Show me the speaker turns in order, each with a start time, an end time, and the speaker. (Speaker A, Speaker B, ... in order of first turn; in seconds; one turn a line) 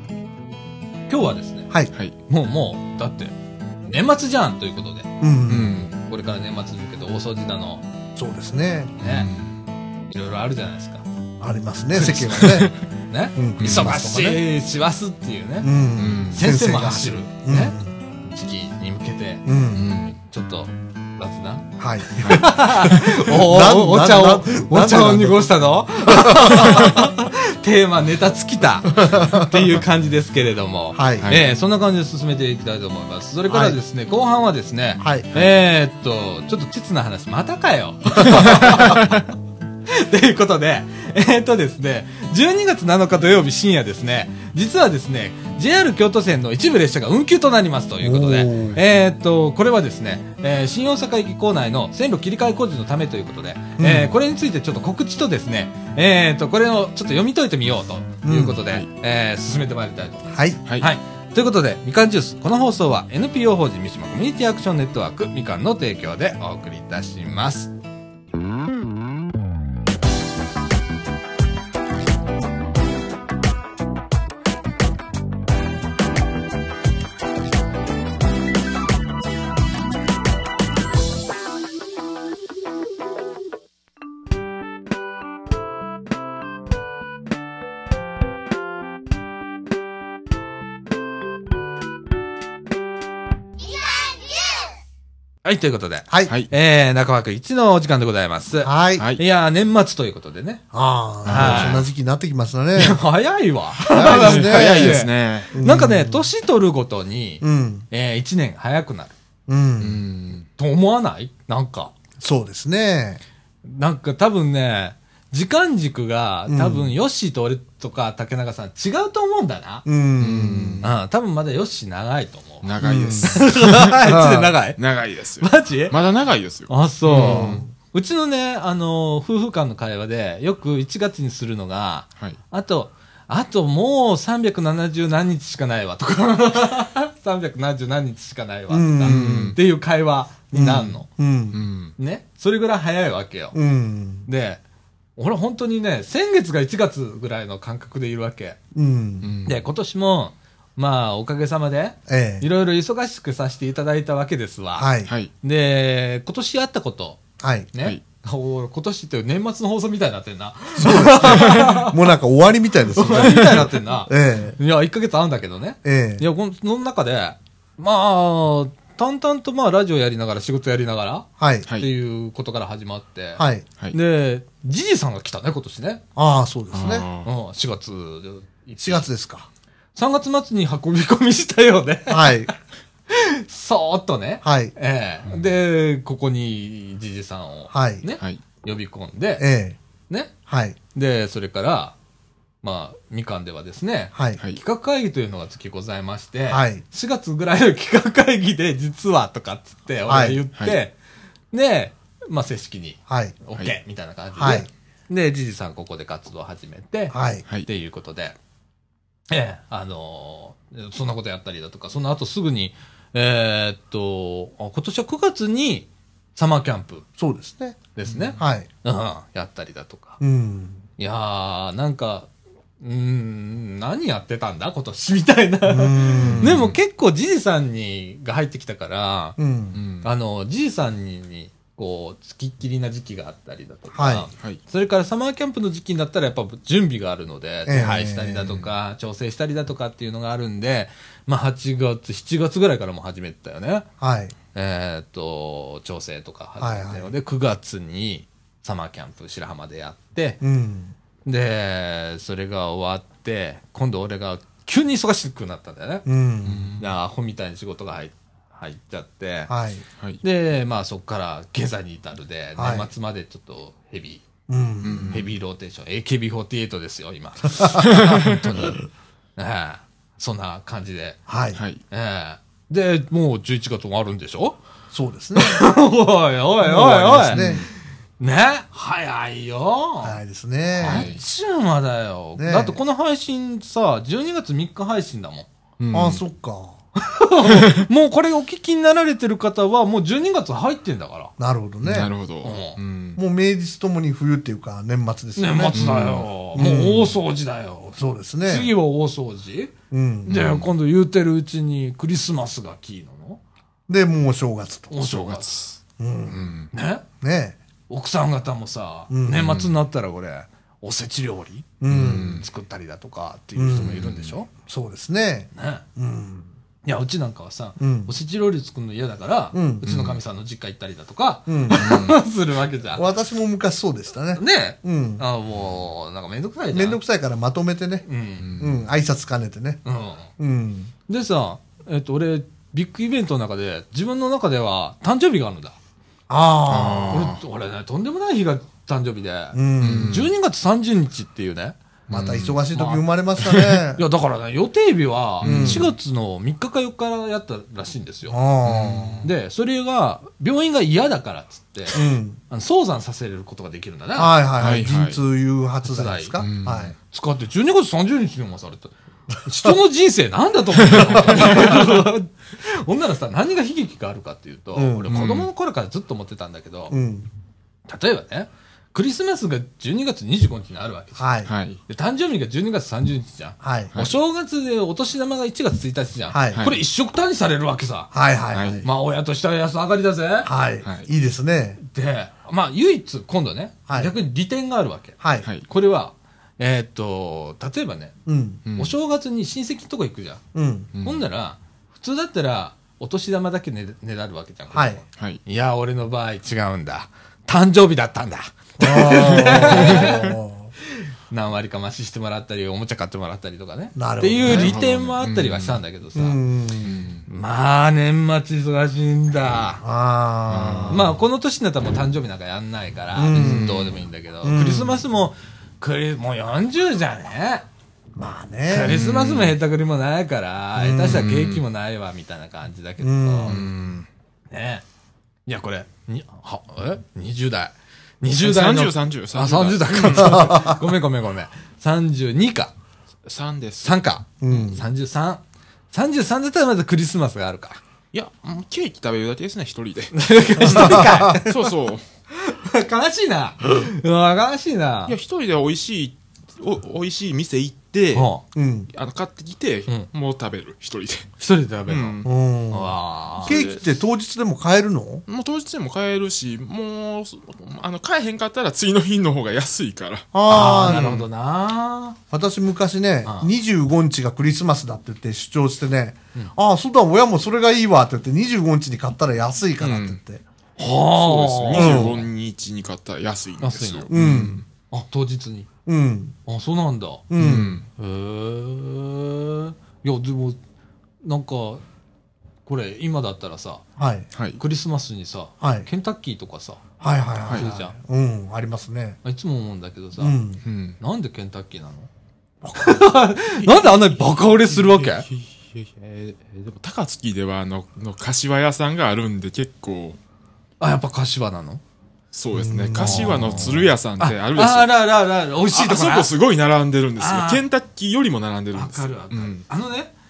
Speaker A: 1.1-1.7
Speaker A: 2.3-3.3
Speaker A: 3.9-5.1
Speaker B: 5.2-5.9
Speaker C: 5.5-5.9
Speaker A: 5.9-7.8
Speaker B: 8.2-9.0
Speaker A: 9.0-9.3
Speaker C: 9.0-9.6
Speaker A: 10.1-11.1
Speaker B: 11.4-12.7
Speaker C: 12.0-12.8
Speaker A: 13.1-15.7
Speaker B: 13.4-14.4
Speaker C: 13.6-13.9
Speaker B: 15.6-17.9
Speaker C: 16.0-16.4
Speaker A: 16.3-19.5
Speaker B: 19.4-19.9
Speaker C: 19.7-20.2
Speaker A: 20.2-39.3
Speaker B: 21.8-27.0
Speaker C: 22.2-22.4
Speaker B: 29.0-29.6
Speaker B: 30.9-31.3
Speaker B: 33.5-33.8
Speaker B: 35.0-35.3
Speaker B: 38.1-39.1
Speaker A: 39.9-67.7
Speaker B: 48.0-48.8
Speaker B: 53.8-54.1
Speaker B: 58.2-58.6
Speaker B: 60.3-60.6
Speaker A: 95.4-100.6
Speaker B: 98.6-99.0
Speaker B: 100.7-103.0
Speaker C: 101.2-101.8
Speaker A: 101.2-101.8
Speaker A: 102.8-109.1
Speaker B: 103.9-106.3
Speaker C: 103.9-105.6
Speaker B: 107.4-107.9
Speaker B: 109.5-110.0
Speaker C: 109.8-110.5
Speaker A: 110.6-111.9
Speaker B: 112.2-113.2
Speaker A: 113.7-119.9
Speaker B: 116.5-117.0
Speaker B: 119.9-120.9
Speaker C: 120.2-120.9
Speaker A: 120.8-124.8
Speaker C: 122.6-124.0
Speaker B: 122.8-123.5
Speaker B: 124.0-124.5
Speaker C: 124.8-127.6
Speaker A: 125.4-126.0
Speaker A: 126.7-141.1
Speaker B: 127.1-127.7
Speaker B: 138.7-139.6
Speaker C: 139.0-139.6
Speaker B: 140.5-141.6
Speaker C: 141.5-141.9
Speaker A: 142.0-143.6
Speaker B: 143.5-144.3
Speaker A: 144.3-144.6
Speaker A: 145.2-148.6
Speaker B: 148.7-149.3
Speaker C: 149.2-149.6
Speaker A: 149.5-154.9
Speaker B: 152.1-152.5
Speaker B: 154.8-155.1
Speaker C: 155.1-155.3
Speaker A: 155.4-157.2
Speaker B: 157.4-157.7
Speaker A: 157.7-162.0
Speaker B: 160.8-164.6
Speaker C: 161.4-161.6
Speaker A: 162.9-176.0
Speaker C: 163.2-163.6
Speaker B: 165.8-166.2
Speaker B: 171.4-171.7
Speaker B: 173.4-173.7
Speaker B: 176.2-177.1
Speaker C: 176.7-177.3
Speaker A: 177.2-179.1
Speaker B: 178.8-179.5
Speaker A: 179.9-182.5
Speaker B: 182.1-182.5
Speaker A: 183.1-189.5
Speaker B: 184.4-184.7
Speaker B: 187.7-188.1
Speaker B: 189.4-189.8
Speaker B: 190.5-190.8
Speaker A: 190.9-192.0
Speaker A: 192.6-200.9
Speaker B: 194.1-194.4
Speaker B: 196.5-196.8
Speaker B: 200.1-200.4
Speaker A: 201.5-208.4
Speaker B: 203.1-203.4
Speaker B: 204.4-204.7
Speaker B: 207.1-207.4
Speaker A: 209.3-217.1
Speaker B: 217.2-217.8
Speaker A: 217.9-220.2
Speaker C: 218.1-218.4
Speaker B: 218.4-218.7
Speaker B: 220.2-220.8
Speaker A: 221.0-229.4
Speaker B: 225.7-226.7
Speaker C: 226.2-226.8
Speaker B: 229.4-229.8
Speaker C: 229.7-230.1
Speaker A: 230.0-243.9
Speaker B: 234.0-234.3
Speaker B: 237.7-238.6
Speaker B: 244.0-244.3
Speaker A: 244.5-250.4
Speaker B: 246.6-247.1
Speaker B: 250.4-250.9
Speaker A: 251.2-256.1
Speaker B: 256.1-256.7
Speaker C: 256.5-256.9
Speaker A: 256.8-259.5
Speaker B: 259.5-259.8
Speaker A: 260.2-264.3
Speaker B: 262.6-262.9
Speaker B: 264.5-265.2
Speaker C: 264.8-265.3
Speaker A: 265.1-268.8
Speaker A: 269.4-271.2
Speaker B: 271.3-271.6
Speaker C: 271.6-271.8
Speaker A: 271.9-274.6
Speaker B: 274.9-275.6
Speaker A: 275.4-277.4
Speaker B: 276.6-277.7
Speaker C: 277.3-277.7
Speaker A: 278.2-280.2
Speaker B: 280.0-281.1
Speaker A: 280.8-285.5
Speaker C: 280.8-281.2
Speaker B: 282.4-282.8
Speaker C: 285.8-286.2
Speaker B: 285.9-286.8
Speaker A: 287.0-291.3
Speaker B: 291.4-292.1
Speaker C: 291.8-293.2
Speaker A: 292.4-292.8
Speaker B: 293.2-297.2
Speaker A: 295.4-299.7
Speaker C: 295.7-296.3
Speaker B: 298.0-298.7
Speaker B: 299.9-300.5
Speaker A: 300.3-303.4
Speaker C: 300.3-300.7
Speaker B: 303.9-304.9
Speaker A: 304.9-305.6
Speaker C: 305.0-305.8
Speaker B: 306.0-306.5
Speaker C: 306.3-306.7
Speaker A: 306.7-307.1
Speaker B: 307.2-307.6
Speaker A: 307.9-314.5
Speaker B: 309.1-309.6
Speaker C: 309.4-309.7
Speaker B: 311.8-312.4
Speaker C: 311.9-312.4
Speaker B: 313.6-316.5
Speaker A: 315.6-315.8
Speaker A: 316.8-323.1
Speaker B: 317.8-318.1
Speaker B: 319.5-319.9
Speaker C: 319.8-320.2
Speaker B: 321.5-322.1
Speaker C: 321.7-322.2
Speaker B: 322.9-325.2
Speaker A: 324.4-327.0
Speaker B: 326.7-328.1
Speaker A: 328.1-328.5
Speaker C: 328.4-328.9
Speaker B: 328.6-329.8
Speaker A: 329.9-330.3
Speaker B: 330.4-330.9
Speaker A: 331.1-335.8
Speaker B: 336.3-337.3
Speaker C: 336.7-337.4
Speaker A: 337.1-341.8
Speaker B: 339.5-340.3
Speaker C: 339.8-340.3
Speaker C: 342.1-342.6
Speaker B: 342.1-344.0
Speaker A: 342.7-343.1
Speaker C: 343.4-343.8
Speaker A: 344.0-348.4
Speaker C: 345.4-345.9
Speaker B: 345.4-345.9
Speaker B: 348.3-349.3
Speaker C: 348.6-349.3
Speaker A: 349.2-354.4
Speaker B: 351.9-352.4
Speaker B: 354.1-357.0
Speaker C: 354.6-355.2
Speaker A: 355.9-356.4
Speaker C: 356.4-356.9
Speaker A: 357.1-366.9
Speaker C: 361.0-361.3
Speaker B: 364.8-365.1
Speaker C: 365.1-365.5
Speaker B: 366.9-367.3
Speaker A: 367.9-371.3
Speaker B: 371.2-371.5
Speaker C: 371.5-371.8
Speaker A: 371.9-378.1
Speaker B: 373.6-373.9
Speaker B: 376.3-376.6
Speaker C: 376.5-376.8
Speaker B: 378.1-378.9
Speaker C: 378.5-378.8
Speaker A: 378.8-380.5
Speaker B: 380.4-381.8
Speaker C: 380.8-381.1
Speaker A: 381.8-388.1
Speaker B: 383.9-384.1
Speaker B: 385.2-385.5
Speaker B: 388.3-388.6
Speaker C: 388.7-388.9
Speaker A: 388.8-390.4
Speaker B: 390.5-390.9
Speaker C: 390.9-391.2
Speaker A: 391.0-400.4
Speaker B: 394.7-395.0
Speaker C: 395.2-395.4
Speaker B: 398.8-400.7
Speaker C: 399.6-400.2
Speaker A: 400.9-406.4
Speaker B: 403.9-404.8
Speaker C: 404.4-405.8
Speaker B: 406.1-407.0
Speaker C: 406.8-407.2
Speaker A: 407.3-409.8
Speaker B: 409.8-411.1
Speaker C: 410.5-411.1
Speaker A: 410.9-417.6
Speaker B: 413.1-415.0
Speaker C: 413.4-414.0
Speaker B: 418.2-419.0
Speaker A: 418.7-423.6
Speaker C: 418.9-419.6
Speaker B: 420.8-421.2
Speaker C: 421.0-421.6
Speaker B: 423.0-423.7
Speaker C: 423.5-424.1
Speaker A: 424.5-424.8
Speaker A: 425.5-432.7
Speaker C: 428.4-430.4
Speaker B: 430.1-430.8
Speaker C: 433.2-434.0
Speaker A: 433.8-437.8
Speaker B: 434.4-434.8
Speaker C: 438.1-442.0
Speaker A: 440.1-441.7
Speaker B: 440.6-441.4
Speaker A: 442.3-445.2
Speaker C: 445.1-448.3
Speaker A: 448.1-448.4
Speaker B: 448.5-448.9
Speaker C: 448.9-451.3
Speaker A: 451.4-453.6
Speaker C: 451.9-452.3
Speaker B: 452.2-455.2
Speaker C: 453.4-453.9
Speaker C: 455.3-461.2
Speaker B: 460.3-461.2
Speaker A: 460.5-462.2
Speaker B: 462.3-470.4
Speaker A: 463.2-463.5
Speaker C: 469.8-470.2
Speaker A: 470.8-472.3
Speaker C: 471.1-474.6
Speaker B: 471.7-472.2
Speaker A: 473.6-474.1
Speaker B: 474.1-474.6
Speaker A: 474.9-475.7
Speaker B: 475.9-476.4
Speaker A: 476.5-477.2
Speaker B: 477.3-477.8
Speaker C: 477.4-477.9
Speaker A: 478.0-480.6
Speaker A: 481.2-481.8
Speaker A: 482.7-483.8
Speaker B: 484.0-484.3
Speaker C: 484.3-484.6
Speaker A: 484.6-486.8
Speaker B: 485.6-485.9
Speaker B: 487.0-489.2
Speaker A: 487.4-487.9
Speaker A: 489.2-490.4
Speaker B: 490.2-490.6
Speaker C: 490.6-491.0
Speaker A: 491.0-492.1
Speaker B: 492.6-493.7
Speaker A: 492.8-495.3
Speaker C: 494.6-500.2
Speaker A: 500.8-501.8
Speaker C: 502.3-505.1
Speaker B: 502.5-503.9
Speaker A: 502.9-506.3
Speaker C: 505.7-509.6
Speaker A: 507.2-507.6
Speaker A: 508.7-510.1